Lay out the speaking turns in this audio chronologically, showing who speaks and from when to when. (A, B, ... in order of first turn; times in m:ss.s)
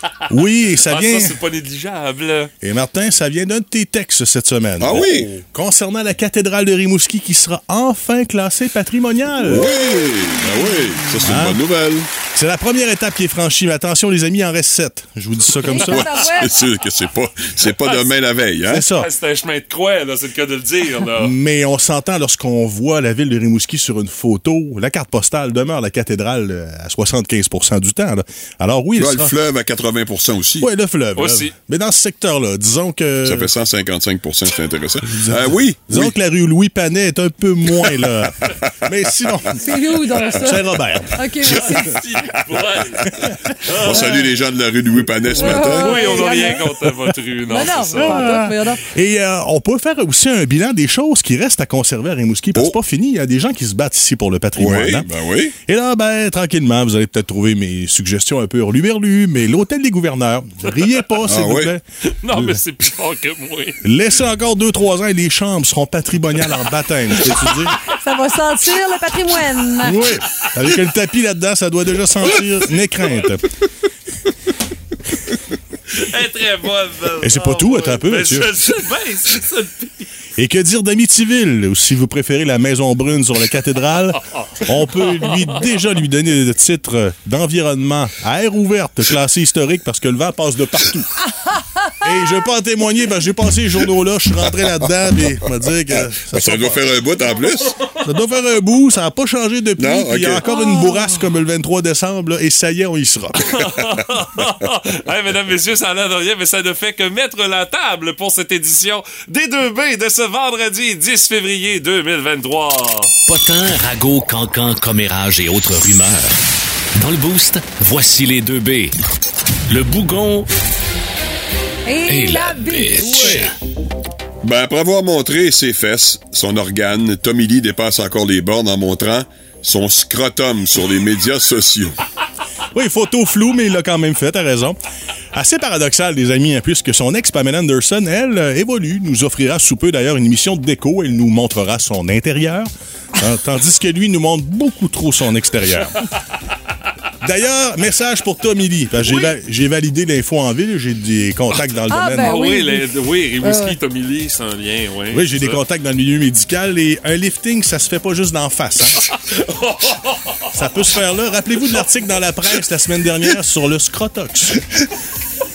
0:00.3-0:01.4 A
0:00.8-0:02.5 B
0:02.6-0:09.7 A
0:04.8-0:05.3 C
0:09.4-0:12.1 C
0:11.2-0:11.6 A
0:12.2-0:16.1 A
0:15.6-0:16.5 D
0:15.8-0:18.8 C
0:18.6-0:19.1 A
0:19.0-0:21.3 B
0:21.1-0:29.3 A
0:29.0-0:30.7 C
0:30.6-0:33.5 A
0:31.2-0:31.5 B
0:33.2-0:36.1 C
0:35.1-0:39.8 A
0:37.9-0:38.5 C
0:39.6-0:42.0 D
0:40.3-0:41.7 A
0:41.4-0:44.2 B
0:43.0-0:46.2 C
0:45.4-0:46.7 D
0:45.4-0:48.3 B
0:47.5-0:48.8 D
0:48.0-0:55.1 A
0:54.6-0:55.5 C
0:55.6-1:01.8 A
1:01.2-1:01.7 C
1:02.1-1:03.8 B
1:03.8-1:07.8 A
1:07.8-1:10.0 D
1:09.8-1:13.5 A
1:15.9-1:20.1 B
1:17.2-1:18.6 A
1:20.4-1:31.1 A
1:32.0-1:36.8 A
1:35.9-1:37.8 C
1:38.0-1:43.4 A
1:39.8-1:40.5 C
1:40.5-1:40.9 D
1:43.5-1:53.1 B
1:53.3-1:56.3 E
1:57.0-1:58.9 E
1:59.7-2:00.5 E
2:01.8-2:03.5 D
2:02.1-2:03.5 E
2:03.1-2:03.5 A
2:04.4-2:12.0 C
2:12.7-2:14.8 A
2:15.3-2:26.0 A
2:27.2-2:32.4 A
2:31.9-2:32.9 D
2:32.2-2:35.6 B
2:33.4-2:33.8 D
2:35.1-2:39.1 A
2:39.0-2:40.8 B
2:40.5-2:44.6 A